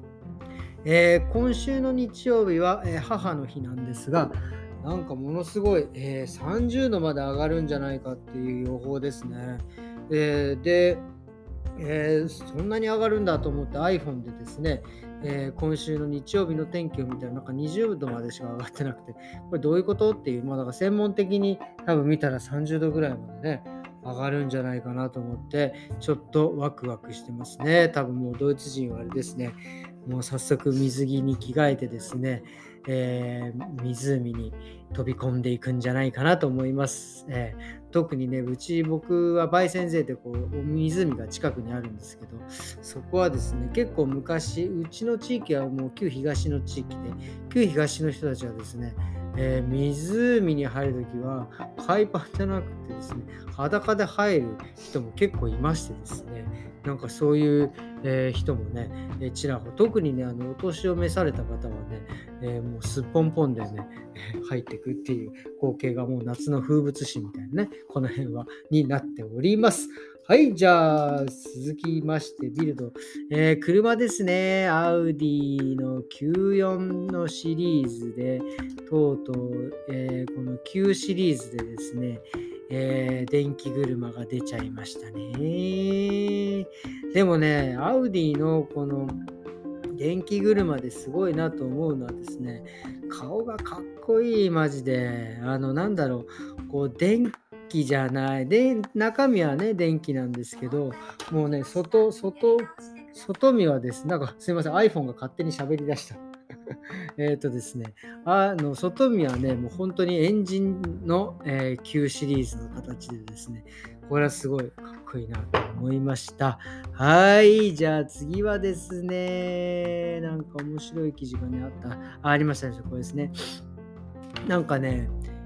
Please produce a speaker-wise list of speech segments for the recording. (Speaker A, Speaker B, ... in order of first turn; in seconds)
Speaker A: 0.8-11.1, 11.8-89.2, 89.9-106.2, 107.2-123.3, 124.5-125.1